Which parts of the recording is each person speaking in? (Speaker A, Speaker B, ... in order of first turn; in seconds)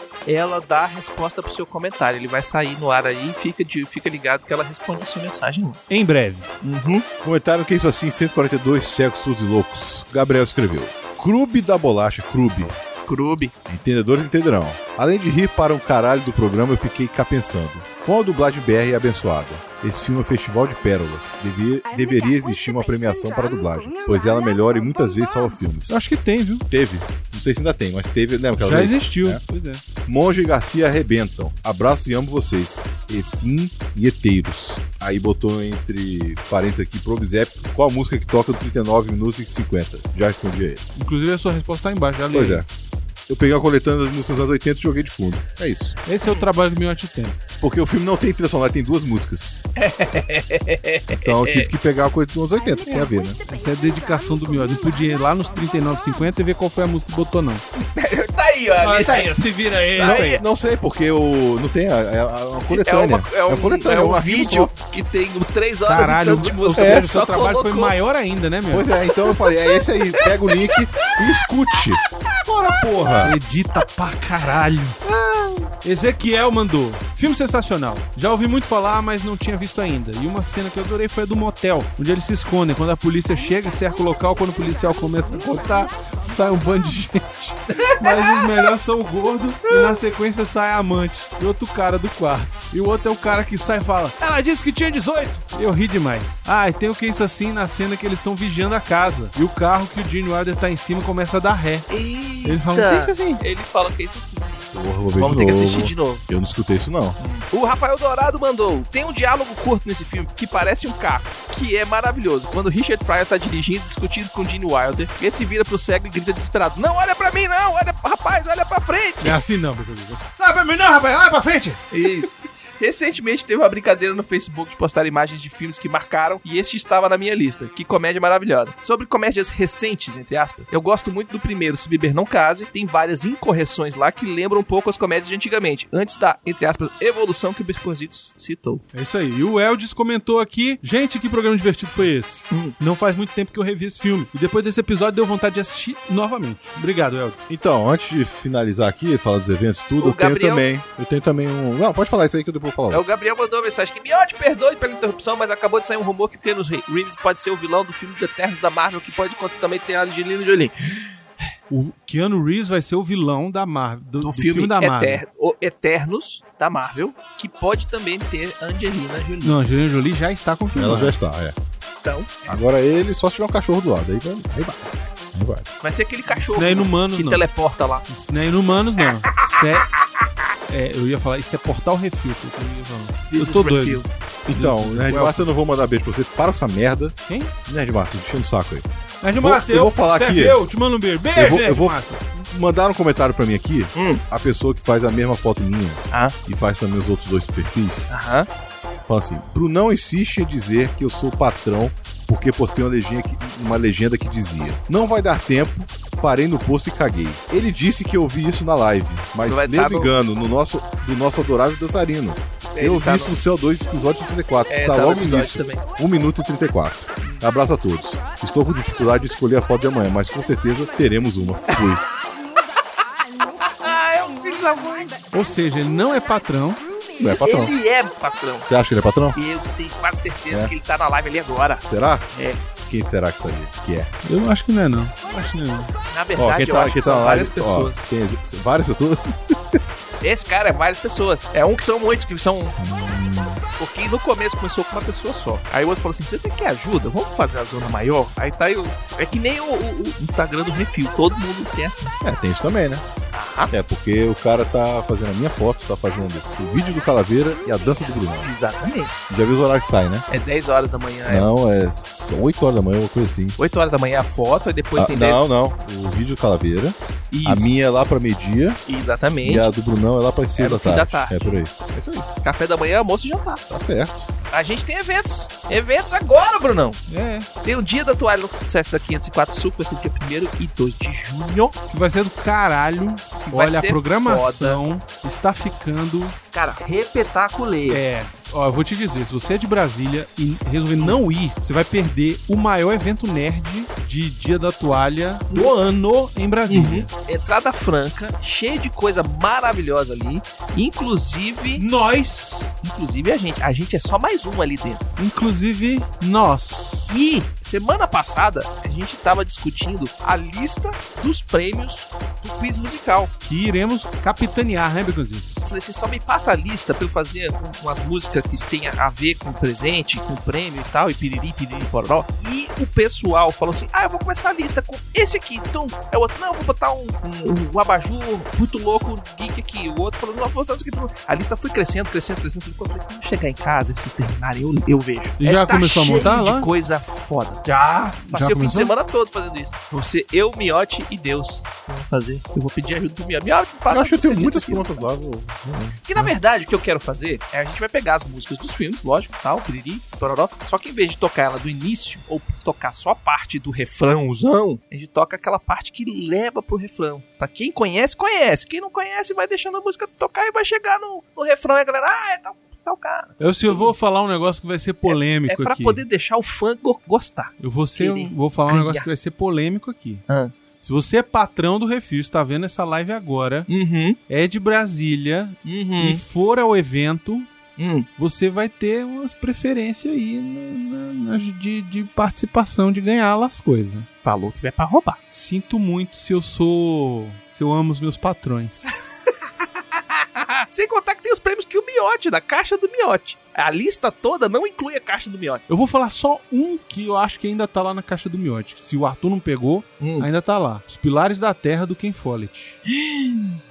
Speaker A: 0.3-5.8, 6.6-7.1, 13.1-13.5, 49.8-51.7, 57.8-60.4, 62.7-68.0, 69.2-71.3, 87.8-88.3, 101.9-106.2, 107.2-119.4, 121.9-138.8, 150.0-150.7, 152.9-161.2, 164.2-169.6, 172.0-172.6, 175.8-178.1, 183.3-184.1, 193.9-194.2, 196.1-196.4, 198.1-198.5, 209.5-210.1, 212.7-213.4, 214.7-215.9, 221.7-222.0, 223.6-225.2, 227.2-228.7, 229.3-232.6, 236.1-238.0, 240.2-242.8, 243.8-252.1, 253.3-253.7, 258.4-259.1, 260.3-261.5, 263.6-265.4, 267.3-267.7, 268.9-269.7, 270.6-271.7, 272.4-273.6, 274.5-277.0, 277.6-281.8, 283.5-284.8, 286.5-288.0, 296.7-301.9, 302.8-305.0, 307.1-313.3, 315.7-345.1, 346.1-363.9, 365.1-369.1, 373.7-374.2, 375.6-376.2, 377.8-378.1, 384.2-385.2, 390.4-395.6, 400.0-400.3, 402.9-403.6
Speaker B: 5.9-6.5, 25.9-26.7, 28.6-29.8, 41.0-42.6, 46.1-47.4, 53.5-57.6, 58.8-60.4, 65.9-68.9, 73.2-75.0, 75.8-101.9, 102.4-103.4, 119.2-121.8, 138.9-147.6, 161.7-165.2, 169.4-171.2, 176.4-177.4, 178.1-179.9, 180.7-185.5, 187.3-187.5, 189.2-192.2, 225.3-226.8, 234.2-235.9, 277.1-277.5, 281.9-286.4, 287.9-297.1, 301.8-302.7, 305.2-307.2, 313.4-315.7, 335.4-336.7, 338.2-338.9, 363.4-366.0, 367.6-370.2, 370.8-373.7, 374.3-377.5, 378.2-384.1, 385.3-389.0, 395.7-402.8
Speaker C: 7.2-12.8, 13.7-26.0, 26.7-29.4, 30.1-40.9, 42.3-42.7, 43.3-46.0, 47.6-49.6, 51.1-53.4, 60.0-64.7, 66.8-67.1, 68.7-73.3, 75.0-75.7, 104.7-107.2, 147.5-153.0, 170.7-171.6, 172.5-175.7, 184.5-188.9, 189.4-190.6, 191.3-198.1, 199.1-222.1, 227.2-227.8, 228.7-229.4, 231.9-232.3, 232.9-234.1, 236.4-239.8, 242.8-243.6, 252.2-253.1, 253.7-258.5, 259.3-260.2, 261.3-263.6, 265.0-268.8, 269.4-272.3, 273.7-274.3, 343.9-346.3